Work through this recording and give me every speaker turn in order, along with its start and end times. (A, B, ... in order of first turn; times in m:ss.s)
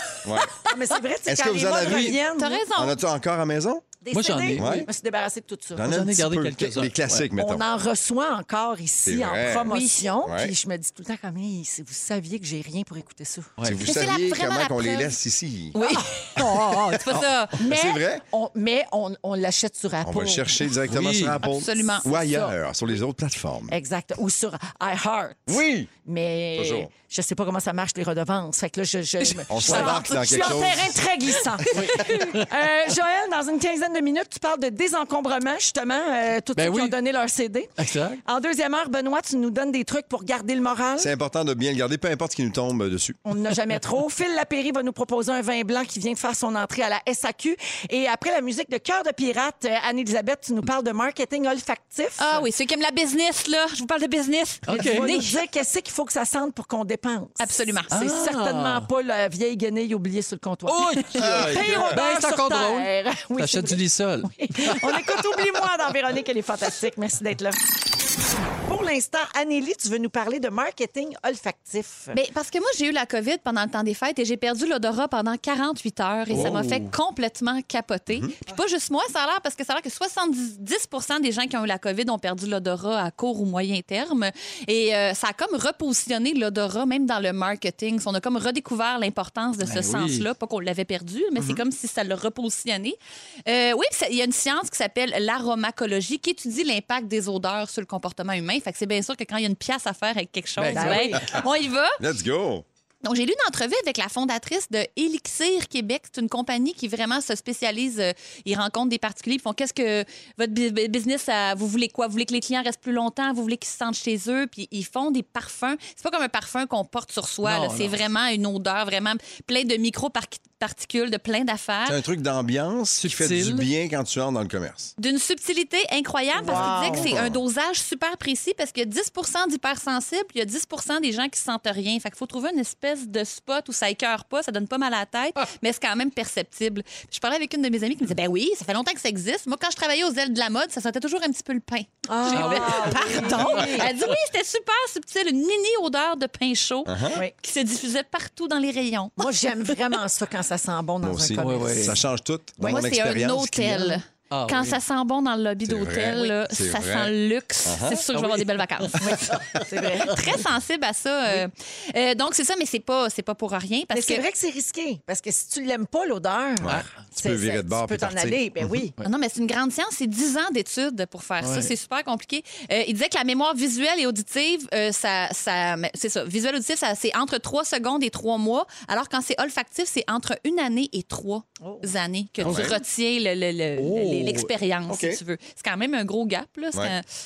0:00.2-0:00.6 A
0:00.6-0:02.6 B
0:01.3-0:02.2 A
0:01.8-0:02.1 C
0:02.4-0:03.0 D
0:02.7-0:03.8 A
0:04.0-0:05.9 B
0:04.1-0:04.9 C
0:04.6-0:04.9 A
0:05.8-0:07.6 A
0:05.8-0:07.3 C
0:07.4-0:13.6 B
0:09.1-0:10.5 A
0:09.7-0:10.0 D
0:13.6-0:13.9 C
0:13.6-0:15.8 A
0:13.8-0:15.2 D
0:15.8-0:17.6 D
0:15.8-0:16.8 B
0:17.1-0:18.2 A
0:17.6-0:20.7 B
0:20.0-0:23.8 A
0:20.9-0:21.4 C
0:21.4-0:22.1 D
0:22.1-0:22.5 B
0:23.7-0:37.7 B
0:25.5-0:25.9 A
0:26.6-0:26.9 A
0:29.5-0:31.0 A
0:29.7-0:30.6 D
0:31.8-0:32.4 C
0:36.6-0:37.0 C
0:37.8-0:38.2 C
0:38.2-0:41.1 B
0:41.0-0:43.2 A
0:43.3-0:52.4 B
0:52.2-0:55.4 D
0:54.7-0:55.2 C
0:54.7-1:07.6 B
0:57.4-0:57.9 D
0:57.9-0:58.9 C
1:00.7-1:05.0 C
1:01.2-1:02.0 A
1:08.6-1:12.2 B
1:12.1-1:42.0 D
1:16.3-1:16.9 C
1:29.6-1:30.2 C
1:40.6-1:41.2 C
1:40.7-1:41.4 B
1:42.0-1:42.6 A
1:43.0-2:02.0 D
1:57.4-1:58.0 C
2:01.9-2:04.9 A
2:03.0-2:03.7 C
2:05.0-2:29.2 D
2:06.4-2:07.2 B
2:06.5-2:07.4 A
2:22.1-2:23.9 B
2:22.3-2:23.9 C
2:26.9-2:27.2 A
2:29.2-2:32.0 B
2:31.0-2:34.0 A
2:31.4-2:32.0 C
2:32.6-2:32.9 B
2:32.6-2:39.3 D
2:34.3-2:34.8 C
2:35.6-2:37.1 A
2:37.6-2:38.0 A
2:38.1-2:39.6 C
2:39.0-2:40.2 B
2:40.1-2:44.2 D
2:43.9-2:48.9 B
2:46.6-2:48.4 A
2:49.0-3:07.0 D
2:51.4-2:51.7 C
3:01.6-3:01.9 B
3:02.4-3:02.8 A
3:03.8-3:04.5 C
3:04.9-3:05.2 A